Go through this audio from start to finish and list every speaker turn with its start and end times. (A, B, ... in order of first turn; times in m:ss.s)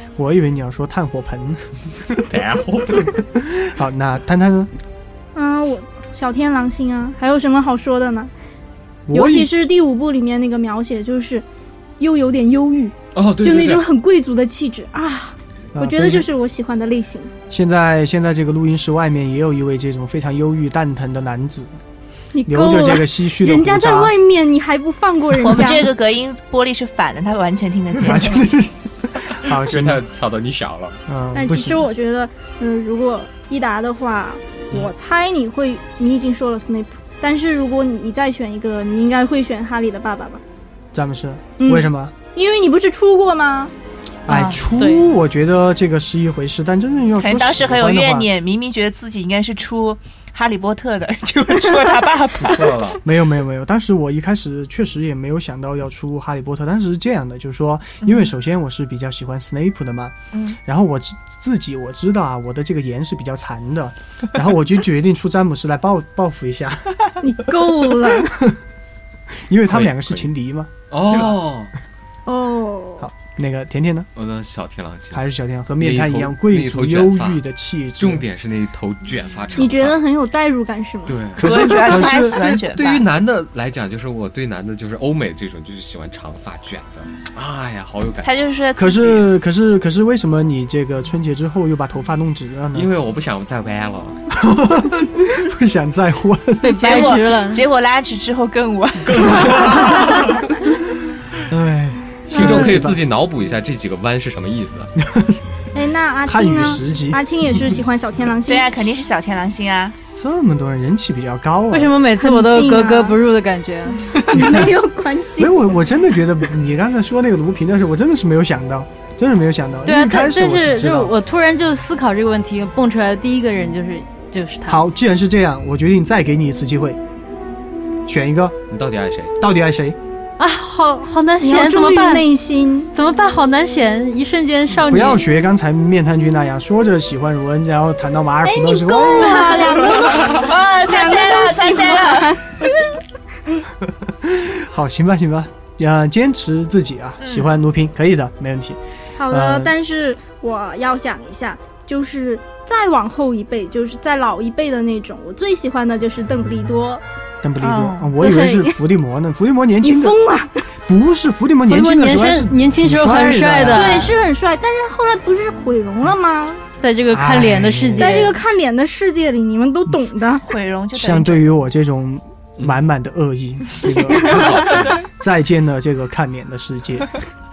0:00.2-0:02.3 A
0:02.2-0:03.2 B
0:03.4-0:04.7 A
0:05.4-0:08.3 C
0:09.1-0:09.5 A
0:09.1-0:11.4 C
0:12.0-0:17.3 C
0:13.1-0:13.8 B
0:15.8-0:16.3 A
0:17.5-0:21.7 A
0:22.3-0:25.9 C
0:22.5-0:24.1 A
0:25.4-0:28.5 D
0:27.9-0:30.0 A
0:29.5-0:31.0 B
0:31.1-0:31.8 A
0:31.4-0:40.4 C
0:40.9-0:42.1 A
0:41.6-0:43.7 C
0:44.3-0:48.3 A
0:44.3-0:45.1 E
0:47.2-0:53.0 D
0:52.4-0:53.0 B
0:53.0-1:07.1 A
0:58.0-0:58.3 D
1:07.2-1:08.5 C
1:07.9-1:08.6 A
1:09.5-1:11.3 A
1:09.7-1:10.3 B
1:10.9-1:11.7 B
1:12.3-1:13.1 C
1:13.0-1:14.1 A
1:14.2-1:15.2 B
1:15.1-1:18.2 A
1:15.8-1:17.4 B
1:18.0-1:20.0 B
1:19.6-1:21.3 C
1:21.1-1:28.3 B
1:21.4-1:22.4 A
1:21.4-1:23.0 D
1:28.2-1:29.3 D
1:28.8-1:32.9 A
1:32.7-1:34.2 B
1:34.3-1:37.1 A
1:36.6-1:37.6 E
1:36.7-1:40.3 D
1:39.1-1:40.4 B
1:39.4-1:40.2 A
1:41.5-1:43.0 A
1:42.3-1:44.9 B
1:42.3-1:42.7 C
1:45.0-1:45.4 A
1:45.7-1:48.7 C
1:46.3-1:47.2 A
1:48.4-1:50.0 D
1:50.1-1:51.9 A
1:51.7-1:54.2 E
1:52.2-1:53.2 C
1:54.1-1:55.6 C
1:54.3-1:54.8 A
1:55.4-2:01.1 A
1:59.9-2:04.8 E
2:04.7-2:07.0 A
2:08.1-2:08.6 A
2:08.7-2:09.3 B
2:09.4-2:10.0 A
2:10.4-2:12.3 E
2:11.4-2:12.9 C
2:12.9-2:15.2 E
2:14.9-2:20.2 A
2:18.4-2:23.0 C
2:19.2-2:20.0 E
2:20.2-2:22.4 D
2:24.2-2:28.8 A
2:27.2-2:27.5 D
2:29.2-2:37.0 C
2:29.3-2:29.7 A
2:37.4-2:40.2 A
2:37.6-2:38.2 D
2:38.2-2:38.8 C
2:39.8-2:40.6 C
2:40.9-2:44.1 A
2:41.7-2:44.1 E
2:43.7-2:46.6 C
2:46.8-2:48.4 E
2:47.1-2:48.1 A
2:48.0-2:50.5 C
2:50.4-2:51.5 D
2:50.9-2:57.1 A
2:54.1-2:55.0 B